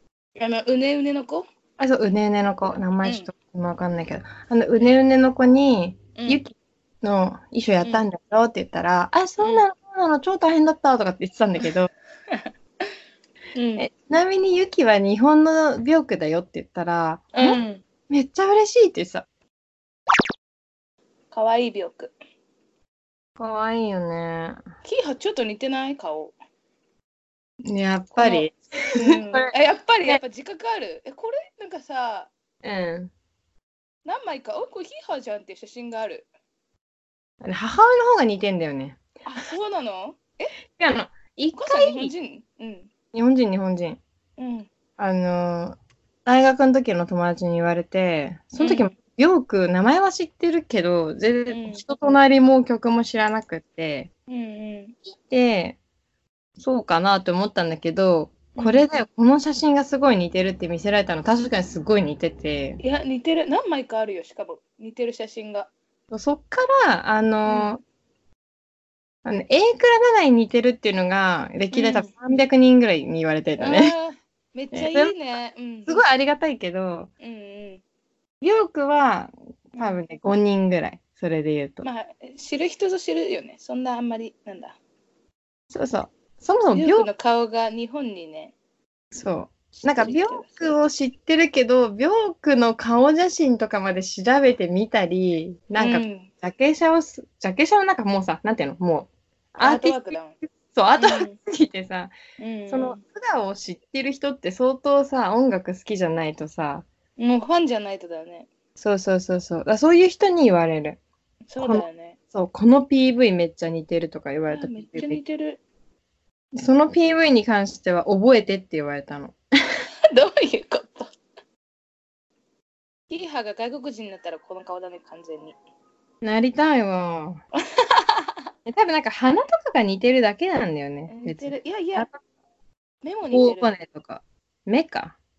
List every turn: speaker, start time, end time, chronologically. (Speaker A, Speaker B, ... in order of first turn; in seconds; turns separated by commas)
Speaker A: 0.4-1.5, Speaker B: 1.8-11.9, Speaker A: 3.0-3.3, Speaker A: 6.2-6.4, Speaker A: 13.5-13.9, Speaker B: 13.8-19.2, Speaker A: 17.3-17.8, Speaker A: 21.3-22.1, Speaker B: 23.4-24.6, Speaker A: 24.8-26.3, Speaker B: 27.6-29.5, Speaker A: 28.2-32.3, Speaker B: 32.6-33.1, Speaker A: 34.0-36.3, Speaker B: 37.4-39.0, Speaker A: 39.2-40.5, Speaker B: 40.8-42.1, Speaker A: 41.5-42.9, Speaker B: 43.1-44.0, Speaker A: 44.4-44.7, Speaker B: 45.0-54.1, Speaker A: 48.6-48.9, Speaker A: 51.5-51.9, Speaker A: 54.3-55.0, Speaker B: 55.2-55.8, Speaker B: 56.6-62.8, Speaker A: 58.5-58.9, Speaker A: 62.8-65.7, Speaker B: 66.1-67.8, Speaker A: 67.4-67.7, Speaker B: 69.2-73.9, Speaker A: 71.7-72.1, Speaker A: 73.6-76.0, Speaker B: 74.7-75.1, Speaker B: 75.8-77.1, Speaker A: 77.2-77.8, Speaker B: 78.4-81.9, Speaker A: 81.8-84.8, Speaker B: 85.7-87.1, Speaker A: 86.7-88.5, Speaker B: 89.1-102.1, Speaker A: 89.8-90.7, Speaker A: 95.8-96.3, Speaker A: 99.6-100.4, Speaker A: 101.0-101.4, Speaker A: 102.4-103.0, Speaker B: 102.7-106.8, Speaker A: 107.2-108.5, Speaker B: 108.8-111.0, Speaker A: 111.5-112.2, Speaker B: 111.6-115.2, Speaker A: 114.5-115.6, Speaker B: 116.5-119.3, Speaker A: 120.1-121.1, Speaker A: 123.1-125.5, Speaker B: 126.2-127.4, Speaker A: 127.7-128.4, Speaker B: 128.6-132.2, Speaker A: 131.1-132.1, Speaker A: 133.0-133.7, Speaker B: 133.3-135.2